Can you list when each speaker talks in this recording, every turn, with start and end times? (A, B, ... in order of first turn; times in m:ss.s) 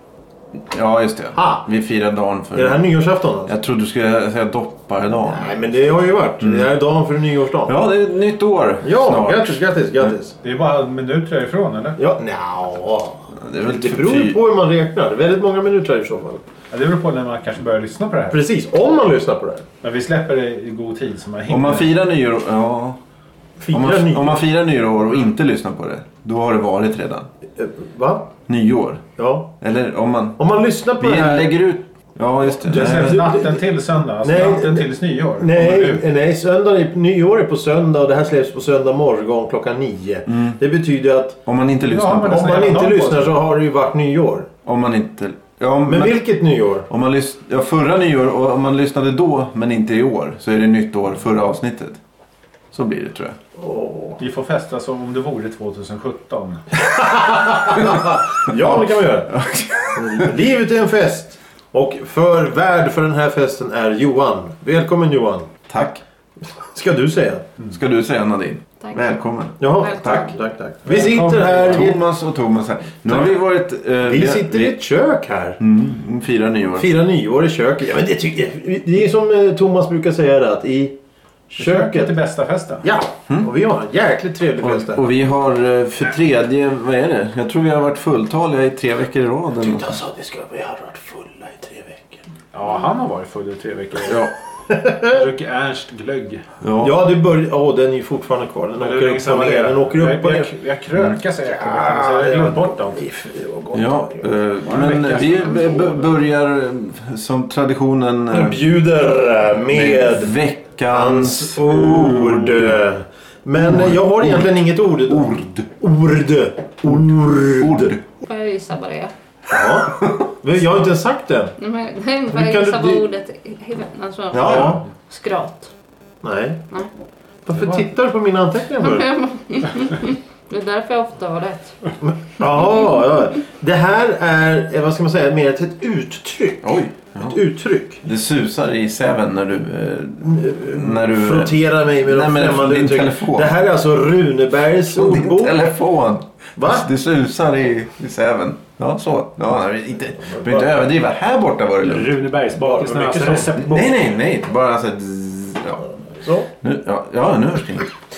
0:00.6-0:02.8 A
0:01.3-0:01.6 B
0:02.5-0:03.5 B
0:03.5-0:05.7 A
0:05.2-0:07.8 B
0:06.4-0:06.7 A
0:07.7-0:10.1 A
0:08.8-0:10.4 B
0:10.4-0:12.0 C
0:12.0-0:16.4 B
0:13.4-0:14.4 A
0:16.7-0:18.4 C
0:18.3-0:19.7 B
0:19.8-0:21.9 C
0:21.5-0:23.0 A
0:23.6-0:24.4 B
0:23.7-0:27.3 A
0:27.6-0:28.3 B
0:28.5-0:29.0 A
0:29.2-0:29.5 B
0:29.6-0:30.4 A
0:30.4-0:31.6 B
0:31.0-0:33.2 A
0:32.6-0:36.0 C
0:32.7-0:33.6 B
0:34.2-0:41.4 B
0:40.3-0:40.6 A
0:41.5-0:42.6 A
0:41.9-0:43.4 C
0:42.3-0:44.5 B
0:44.6-0:46.3 A
0:45.9-0:46.9 B
0:46.9-0:52.0 A
0:52.7-0:53.4 A
0:53.6-0:54.2 B
0:54.2-0:56.6 C
0:56.9-0:59.3 B
0:57.8-1:00.3 A
0:59.9-1:05.6 B
1:05.7-1:06.0 A
1:06.6-1:07.5 B
1:07.6-1:10.3 A
1:08.8-1:09.1 D
1:09.6-1:12.0 B
1:09.8-1:10.3 D
1:10.9-1:11.9 C
1:10.9-1:14.8 A
1:14.0-1:15.6 B
1:15.6-1:16.9 A
1:16.8-1:21.0 B
1:21.5-1:22.1 B
1:21.6-1:22.8 C
1:22.8-1:25.1 B
1:24.6-1:30.0 A
1:29.6-1:32.2 B
1:32.5-1:34.3 C
1:34.0-1:34.3 A
1:34.7-1:35.2 B
1:35.1-1:36.5 C
1:36.6-1:37.0 A
1:36.8-1:40.5 B
1:38.8-1:43.0 C
1:41.4-1:44.3 B
1:43.7-1:48.6 A
1:44.6-1:46.1 C
1:48.3-1:58.0 B
1:49.7-1:52.8 A
1:53.6-1:54.5 A
1:55.1-1:55.7 A
1:57.6-1:58.0 A
1:58.2-1:59.1 D
1:59.5-2:01.6 B
2:01.6-2:05.7 D
2:02.3-2:03.0 B
2:04.3-2:04.8 B
2:04.3-2:04.8 A
2:06.2-2:06.6 B
2:07.5-2:09.2 B
2:08.8-2:11.9 D
2:12.0-2:18.0 B
2:16.6-2:17.4 A
2:18.0-2:23.6 A
2:20.2-2:25.6 B
2:24.9-2:32.1 A
2:26.6-2:26.9 B
2:30.2-2:30.7 B
2:31.8-2:34.0 C
2:32.6-2:33.6 B
2:33.6-2:35.8 A
2:35.9-2:36.5 B
2:36.6-2:37.9 A